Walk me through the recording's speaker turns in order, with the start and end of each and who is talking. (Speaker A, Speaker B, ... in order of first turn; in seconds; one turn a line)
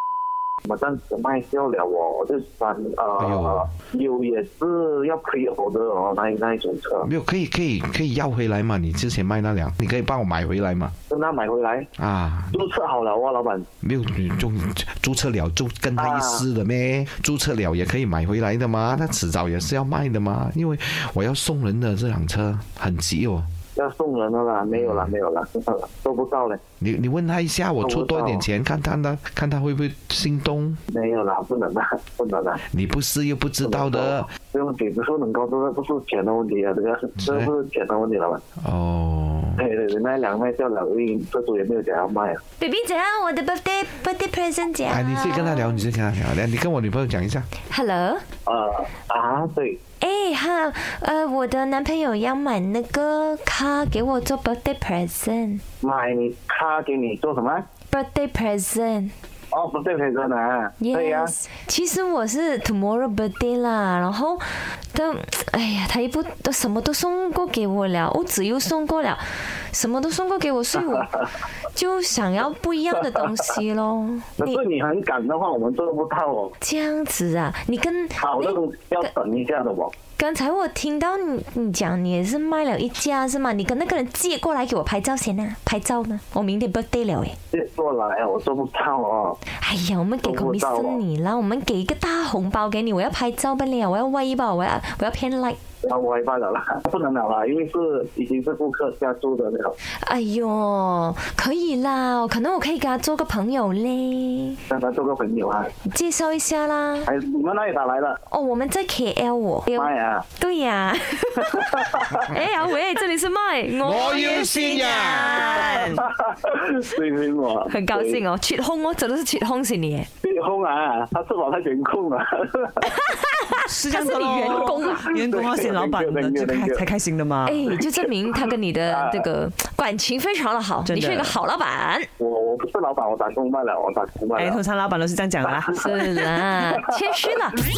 Speaker A: 0.7-7.1
Speaker B: 3.2-3.7
Speaker B: 7.0-10.9
Speaker A: 11.1-11.9
Speaker B: 12.0-12.6
Speaker A: 12.5-13.7
Speaker B: 13.8-23.5
Speaker A: 16.0-16.4
Speaker A: 23.8-26.6
Speaker B: 24.7-25.1
Speaker B: 26.8-30.8
Speaker A: 27.8-28.4
Speaker A: 30.9-32.6
Speaker B: 32.7-34.3
Speaker A: 33.6-38.4
Speaker B: 37.2-37.5
Speaker B: 38.6-39.6
Speaker A: 39.6-42.4
Speaker C: 42.6-45.8
Speaker B: 44.8-47.5
Speaker C: 47.6-48.2
Speaker A: 48.5-49.8
Speaker C: 50.0-55.6
Speaker A: 55.8-57.6
Speaker C: 57.9-59.1
Speaker A: 59.5-61.3
Speaker C: 60.8-71.2
Speaker A: 70.9-71.1
Speaker C: 71.7-74.6
Speaker A: 73.0-73.2
Speaker A: 74.4-76.5
Speaker C: 76.6-79.1
Speaker A: 78.2-80.0
Speaker C: 80.1-87.4
Speaker A: 87.5-89.4
Speaker C: 89.5-95.6
Speaker A: 90.2-91.0
Speaker A: 95.8-99.7
Speaker C: 99.9-104.6
Speaker A: 104.7-105.7
Speaker C: 105.8-107.1
Speaker A: 107.0-108.2
Speaker C: 108.3-116.1
Speaker A: 109.7-110.2
Speaker A: 111.6-112.0
Speaker B: 113.8-115.6
Speaker D: 114.6-116.0
Speaker A: 115.9-118.2
Speaker C: 117.6-120.1
Speaker A: 120.2-122.9
Speaker C: 122.8-125.1
Speaker D: 123.6-127.6
Speaker A: 124.9-126.9
Speaker C: 127.4-132.1
Speaker A: 127.7-129.3
Speaker D: 130.8-131.4
Speaker A: 132.2-134.6
Speaker D: 134.4-135.8
Speaker C: 135.7-137.6
Speaker A: 135.8-136.8